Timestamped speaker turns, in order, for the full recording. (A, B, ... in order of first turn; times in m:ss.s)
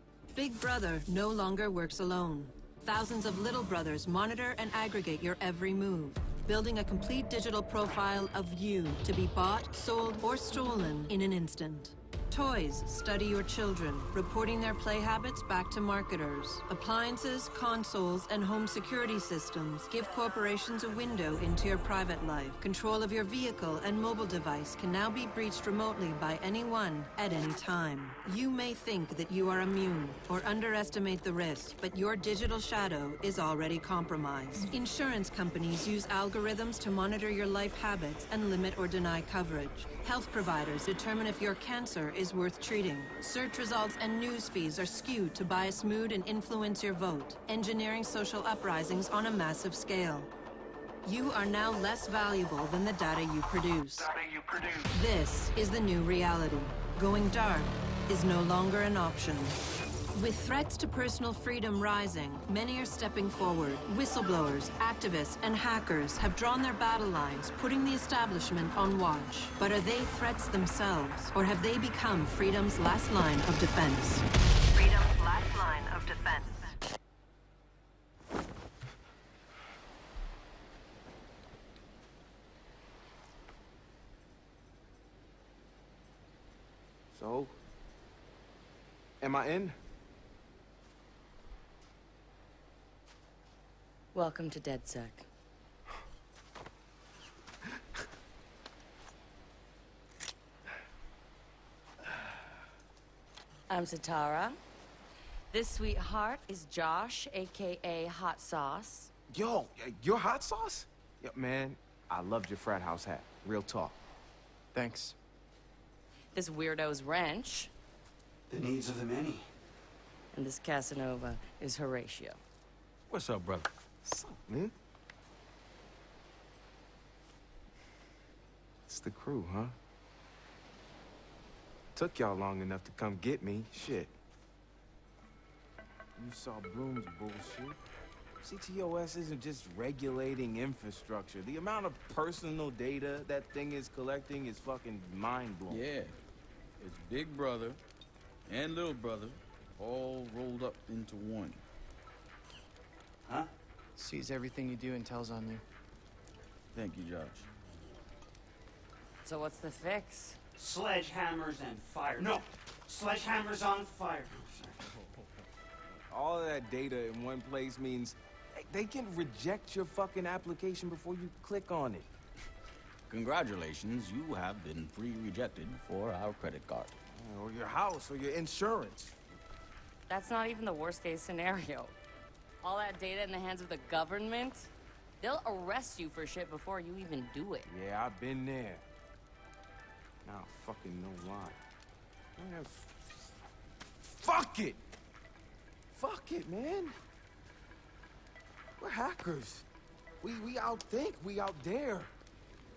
0:00.3-0:50.3 A
0:51.0-0:54.1 A
0:54.9-0:59.6 A
1:00.1-1:16.7 A
1:27.1-1:27.6 B
1:29.2-1:29.8 B
1:34.1-1:35.2 C
1:43.7-1:44.6 C
1:45.5-1:49.1 C
1:49.3-1:54.0 B
1:54.7-1:55.1 D
1:56.3-1:57.7 C
1:58.5-1:59.5 E
2:00.3-2:02.4 C
2:03.1-2:03.7 F
2:04.0-2:04.7 B
2:08.8-2:09.8 B
2:11.9-2:14.1 B
2:16.2-2:17.8 B
2:18.4-2:25.8 B
2:25.7-2:26.1 F
2:26.8-2:27.8 F
2:28.5-2:31.6 F
2:34.0-2:35.6 D
2:36.7-2:37.4 F
2:39.2-2:40.4 C
2:40.6-2:44.8 E
2:46.1-2:52.1 B
2:53.1-2:56.9 F
2:57.1-2:59.1 B
3:00.1-3:01.9 C
3:02.6-3:04.7 C
3:05.2-3:07.7 C
3:07.7-3:08.8 B
3:10.2-3:11.6 B
3:12.4-3:13.2 B
3:14.0-3:14.8 B
3:15.9-3:17.0 B
3:18.8-3:19.6 B
3:20.2-3:22.1 B